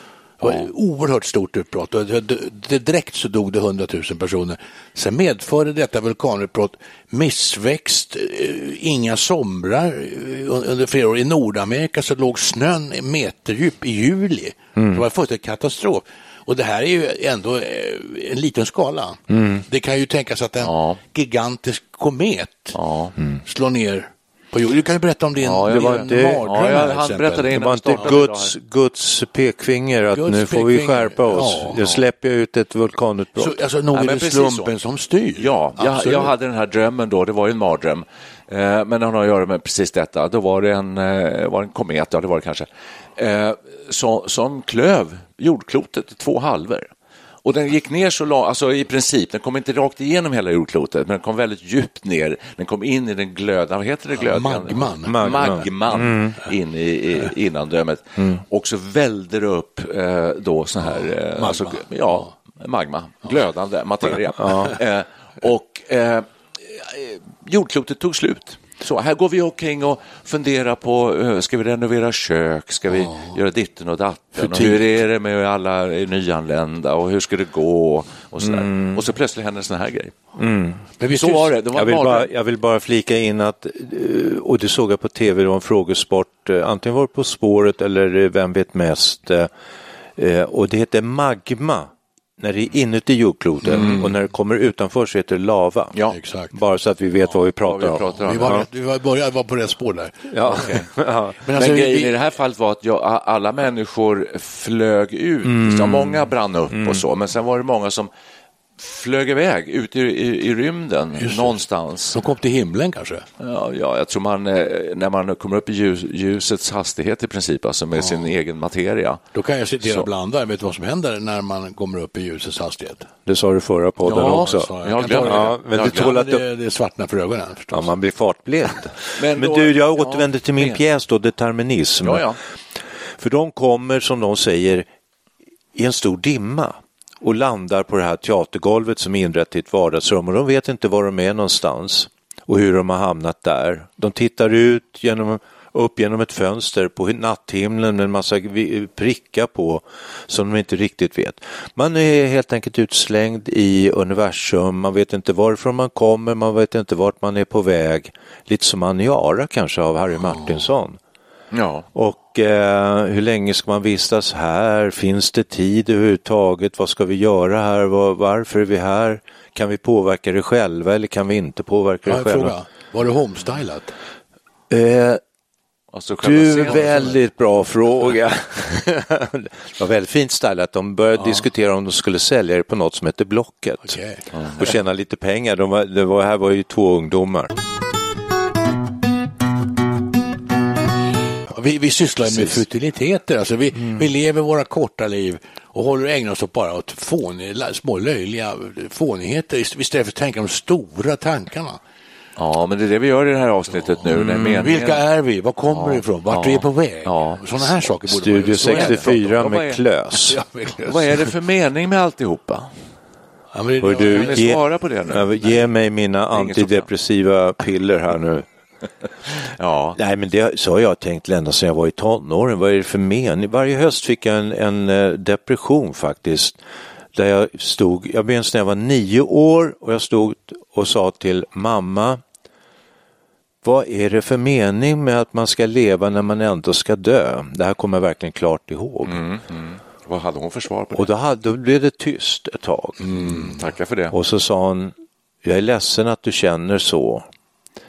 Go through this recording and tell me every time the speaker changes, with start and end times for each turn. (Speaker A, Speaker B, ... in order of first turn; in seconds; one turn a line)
Speaker A: 0.4-22.8
Speaker B: 14.8-15.0
Speaker B: 19.3-19.6
Speaker C: 20.6-21.0
Speaker C: 22.7-23.1
Speaker A: 23.4-28.1
Speaker C: 25.4-28.5
Speaker B: 25.7-26.4
Speaker B: 27.5-33.5
Speaker A: 30.1-31.8
Speaker A: 33.4-36.3
Speaker C: 33.9-34.7
Speaker C: 35.4-46.9
Speaker C: 47.4-80.1
Speaker A: 54.1-55.7
Speaker B: 55.0-56.4
Speaker A: 60.8-62.3
Speaker B: 64.4-64.8
Speaker A: 72.9-73.3
Speaker B: 74.3-74.8
Speaker B: 78.4-79.0
Speaker B: 80.4-80.8
Speaker A: 81.0-81.6
Speaker C: 81.1-82.3
Speaker B: 81.7-89.5
Speaker B: 90.2-96.0
Speaker A: 93.6-94.1
Speaker C: 93.7-94.1
Speaker A: 96.1-96.5
Speaker B: 96.5-98.7
Speaker C: 97.6-98.7
Speaker A: 98.2-100.8
Speaker B: 100.3-101.4
Speaker C: 100.4-100.9
Speaker A: 101.4-102.1
Speaker C: 101.5-108.1
Speaker B: 105.4-107.0
Speaker C: 108.8-112.2
Speaker A: 111.2-111.6
Speaker A: 112.1-113.2
Speaker C: 113.4-119.2
Speaker A: 118.0-118.3
Speaker A: 119.3-123.1
Speaker C: 119.8-120.1
Speaker B: 123.2-126.4
Speaker C: 124.0-126.2
Speaker A: 124.0-127.8
Speaker B: 127.7-132.3
Speaker C: 129.1-130.8
Speaker C: 132.0-132.4
Speaker B: 133.2-134.8
Speaker B: 135.7-161.0
Speaker C: 161.5-161.8
Speaker B: 161.9-172.5
Speaker A: 172.1-173.9
Speaker B: 174.7-175.2
Speaker C: 175.9-177.2
Speaker B: 176.2-184.0
Speaker A: 181.2-181.4
Speaker A: 183.8-184.2
Speaker B: 184.6-187.5
Speaker A: 191.5-201.8
Speaker C: 202.4-205.0
Speaker A: 203.8-209.4
Speaker B: 204.1-204.5
Speaker C: 205.7-207.4
Speaker B: 208.1-210.4
Speaker C: 208.5-209.8
Speaker A: 210.2-211.2
Speaker C: 210.8-212.7
Speaker A: 213.5-214.6
Speaker B: 213.8-218.4
Speaker C: 213.9-215.6
Speaker C: 216.3-216.9
Speaker C: 219.5-220.0
Speaker B: 219.9-226.6
Speaker B: 227.1-232.2
Speaker B: 233.6-239.2
Speaker C: 239.0-241.1
Speaker B: 240.9-243.1
Speaker A: 243.0-243.6
Speaker C: 243.2-244.1
Speaker B: 244.1-247.2